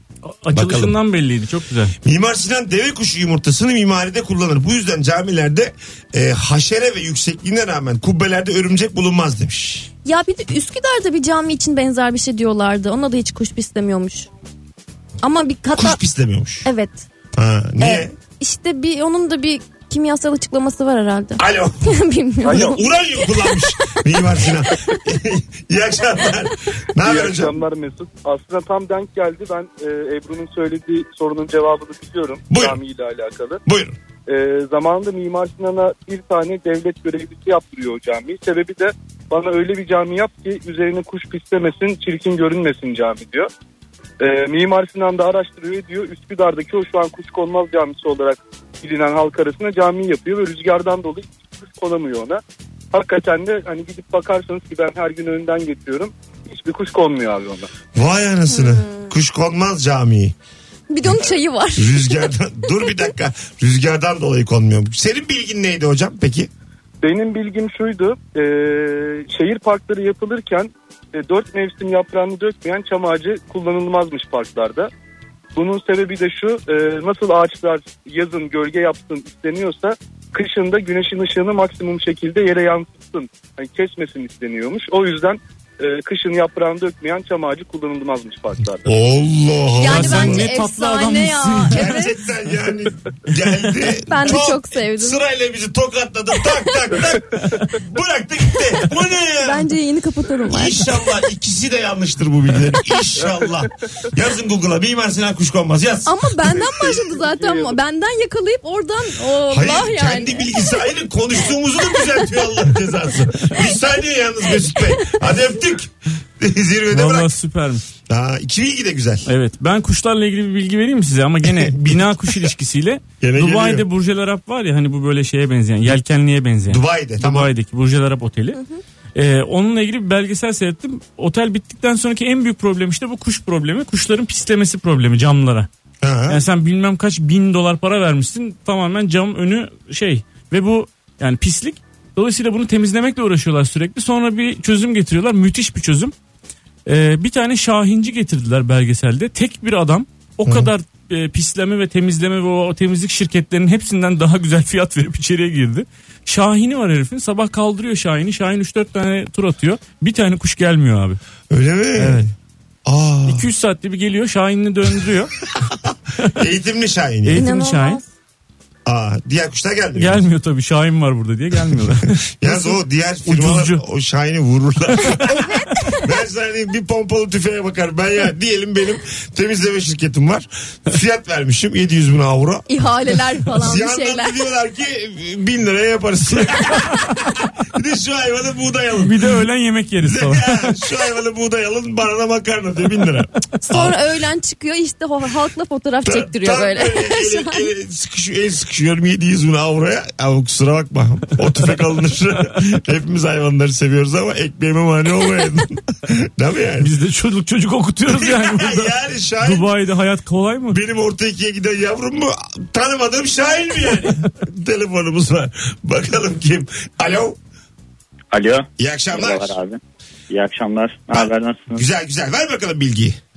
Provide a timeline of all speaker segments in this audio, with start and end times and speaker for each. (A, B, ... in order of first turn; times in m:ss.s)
0:00.2-0:01.9 A
0:00.5-0:00.9 B
0:02.0-0:09.9 B
0:10.0-0:14.3 C
0:15.2-0:16.0 C
0:15.7-0:16.7 B
0:16.6-0:17.0 C
0:17.4-0:18.2 B
0:17.8-0:23.6 C
0:21.4-0:21.9 B
0:22.4-0:22.8 D
0:22.4-0:27.6 B
0:27.0-0:33.6 D
0:32.5-0:32.8 B
0:33.6-0:34.0 B
0:34.3-0:43.5 D
0:44.2-0:52.4 D
0:52.9-0:57.7 D
0:57.9-1:00.4 B
0:58.5-0:59.1 C
1:00.9-1:03.1 C
1:01.0-1:06.5 B
1:07.0-1:14.9 D
1:15.6-1:28.9 D
1:28.9-1:30.5 B
1:29.8-1:32.1 C
1:29.8-1:31.9 A
1:31.7-1:39.7 B
1:34.1-1:35.2 C
1:39.4-1:40.8 C
1:40.5-1:46.6 B
1:46.0-1:50.8 C
1:47.0-1:47.8 D
1:49.5-1:57.3 B
1:52.0-1:52.3 C
1:54.8-1:55.2 C
1:56.9-1:57.8 A
1:58.1-1:59.3 B
1:59.3-2:08.6 A
2:01.5-2:02.5 B
2:03.2-2:03.8 B
2:06.7-2:07.5 B
2:09.1-2:15.7 A
2:16.0-2:16.4 B
2:16.3-2:26.1 A
2:26.9-2:41.2 A
2:30.4-2:30.7 B
2:41.5-2:42.3 B
2:42.0-2:42.2 A
2:42.9-2:43.4 B
2:43.3-2:45.4 A
2:45.6-2:47.4 B
2:47.2-2:48.0 A
2:47.4-2:48.0 C
2:48.9-2:50.2 B
2:50.0-2:53.8 A
2:52.4-3:02.6 B
2:55.3-2:56.0 C
3:02.7-3:04.4 C
3:03.5-3:09.2 B
3:09.0-3:10.8 A
3:10.0-3:14.0 B
3:13.6-3:17.6 C
3:16.0-3:26.9 B
3:26.8-3:30.8 A
3:28.1-3:29.7 B
3:30.7-3:37.4 B
3:38.3-3:41.8 E
3:38.8-3:39.6 B
3:41.1-3:43.2 B